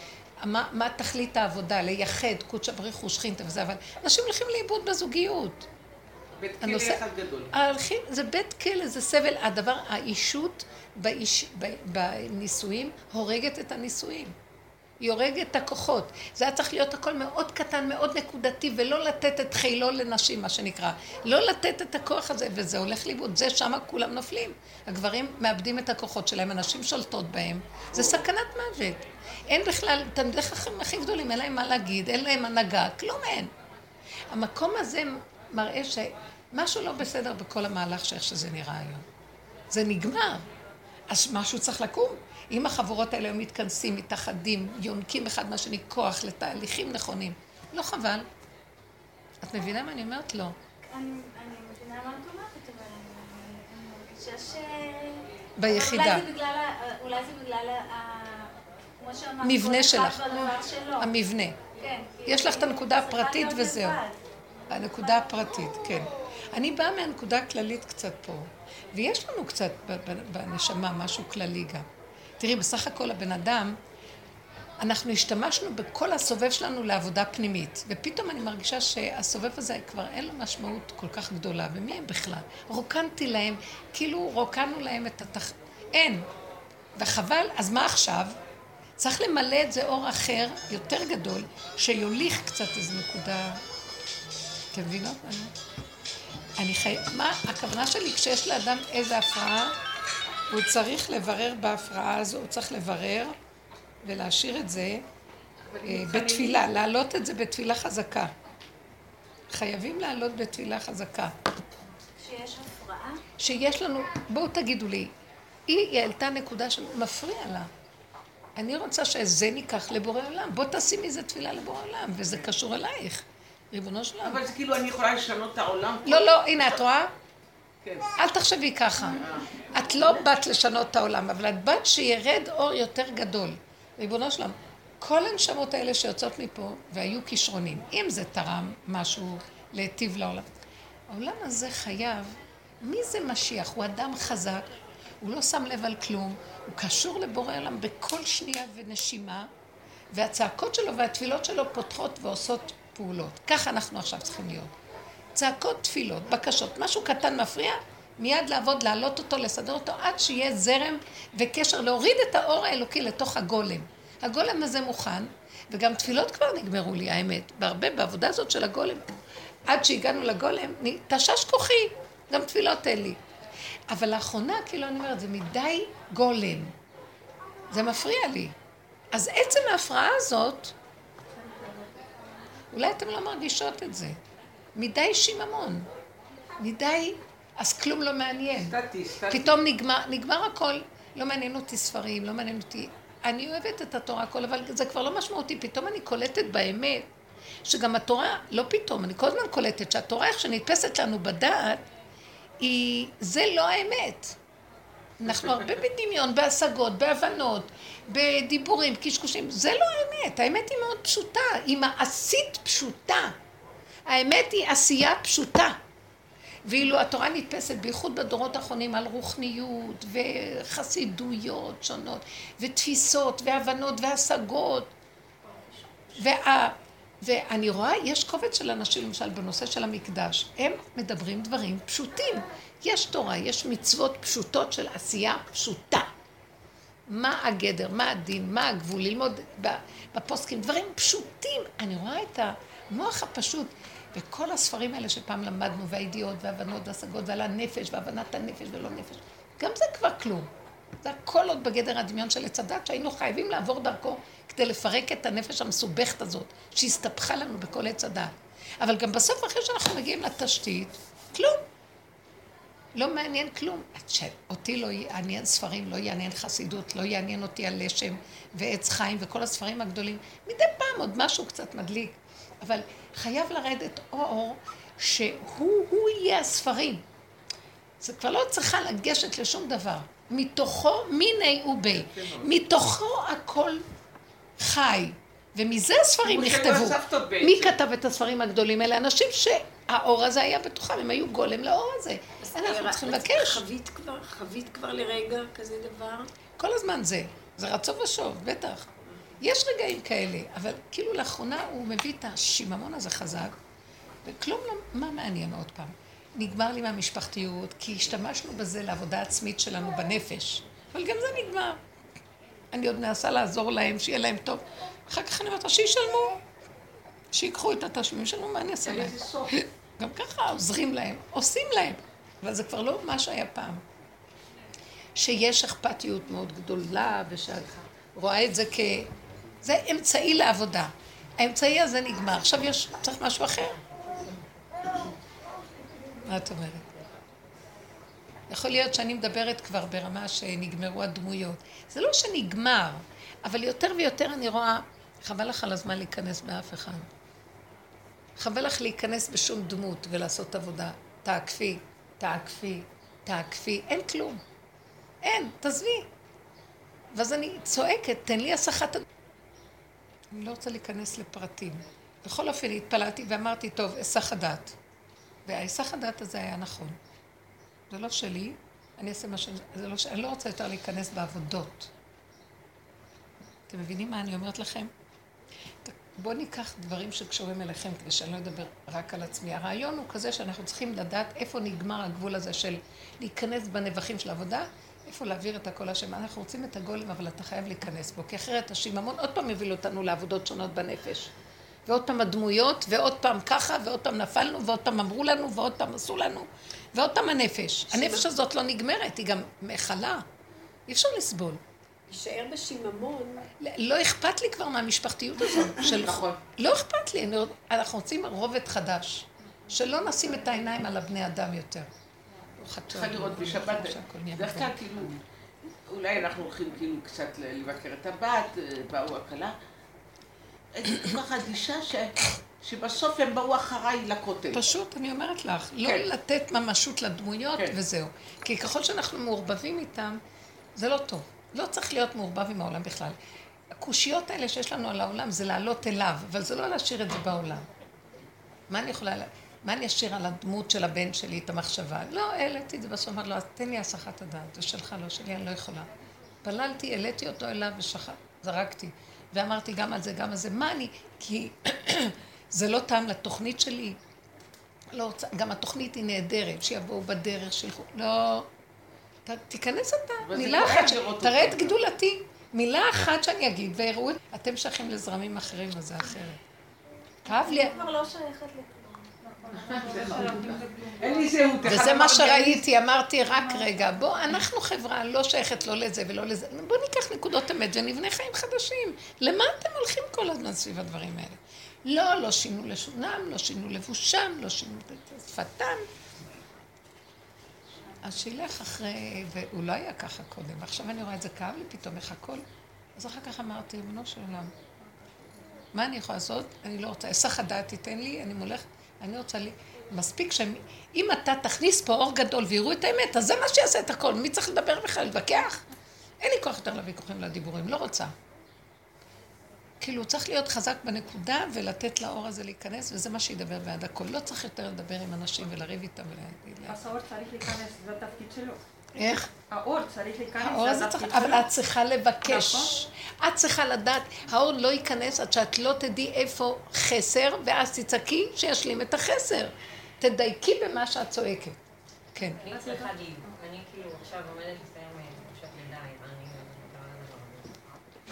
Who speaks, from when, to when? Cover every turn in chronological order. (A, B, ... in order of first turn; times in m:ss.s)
0:00.4-0:05.7 A
0:06.4-0:07.5 B
0:06.6-0:14.3 A
0:15.0-0:33.5 A
0:27.9-0:28.2 B
0:34.3-0:39.0 A
0:39.7-0:40.5 A
0:41.1-0:48.3 A
0:49.4-0:50.6 A
0:50.9-1:01.1 C
0:55.6-0:56.3 A
0:59.4-1:01.6 A
1:01.8-1:04.2 C
1:02.2-1:04.0 A
1:04.7-1:11.8 A
1:12.4-1:13.8 A
1:14.8-1:26.3 A
1:27.0-1:28.4 A
1:29.0-1:33.6 A
1:34.7-1:35.5 A
1:36.6-1:39.7 A
1:40.5-1:43.4 A
1:44.0-1:45.0 A
1:45.6-1:46.6 B
1:45.8-1:48.3 A
1:49.5-1:51.3 A
1:52.2-1:53.2 C
1:53.4-1:55.1 A
1:55.7-1:57.7 A
1:58.6-2:04.4 A
2:04.2-2:06.8 B
2:06.0-2:07.1 A
2:07.8-2:08.1 B
2:08.2-2:20.5 A
2:09.1-2:10.2 B
2:21.1-2:29.5 A
2:30.1-2:34.7 A
2:35.3-2:49.1 A
2:49.7-2:53.2 A
2:53.9-2:56.7 A
2:57.7-2:58.5 A
2:59.1-3:00.7 A
3:01.3-3:02.0 D
3:02.7-3:04.2 A
3:04.8-3:05.9 A
3:06.6-3:08.8 A
3:08.6-3:09.6 B
3:09.3-3:17.1 A
3:17.6-3:21.8 A
3:22.6-3:24.4 A
3:25.2-3:33.3 A
3:34.1-3:35.8 A
3:36.6-3:44.9 A
3:46.2-3:56.1 A
3:57.1-4:10.5 A
4:11.0-4:21.6 A
4:23.0-4:37.0 A
4:38.0-4:43.8 A
4:41.9-4:42.5 B
4:44.6-4:53.6 A
4:46.2-4:47.8 B
4:52.4-4:56.3 E
4:56.6-4:58.9 A
4:59.4-5:03.5 A
5:04.2-5:11.8 A
5:12.7-5:16.4 A
5:17.3-5:23.8 A
5:18.8-5:19.5 B
5:25.2-5:29.1 A
5:29.6-5:33.8 A
5:36.2-5:36.9 A
5:38.5-5:47.1 A
5:48.4-5:54.4 A
5:55.2-5:56.1 A
5:57.1-5:59.0 A
6:00.3-6:04.7 A
6:05.4-6:07.0 A
6:07.9-6:11.9 A
6:13.7-6:14.9 A
6:15.8-6:31.3 A
6:31.9-6:40.2 A
6:37.9-6:38.3 E
6:40.9-6:41.6 A
6:42.1-6:43.5 E
6:43.6-6:51.9 A
6:45.6-6:46.4 B
6:50.1-6:50.6 D
6:52.6-6:54.8 A
6:52.9-6:55.2 B
6:55.8-6:59.5 B
7:00.7-7:04.6 B
7:04.5-7:10.2 A
7:10.8-7:13.2 A
7:13.8-7:17.7 A
7:18.7-7:25.9 A
7:26.4-7:34.0 A
7:34.9-7:38.5 A
7:39.2-7:46.4 A
7:40.2-7:41.8 B
7:47.2-7:49.1 C
7:47.3-7:47.7 A
7:49.2-7:51.4 D
7:49.6-7:52.6 B
7:51.6-8:05.8 A
7:53.2-7:54.4 D
8:08.0-8:12.4 A
8:13.0-8:14.5 A
8:15.7-8:25.6 A
8:26.2-8:28.1 A
8:29.8-8:36.8 A
8:36.7-8:38.6 D
8:38.9-8:39.3 A
8:39.5-8:41.5 D
8:40.4-8:51.6 A
8:42.2-8:42.7 D
8:52.1-8:52.4 A
8:52.2-8:57.8 F
8:52.5-8:53.3 D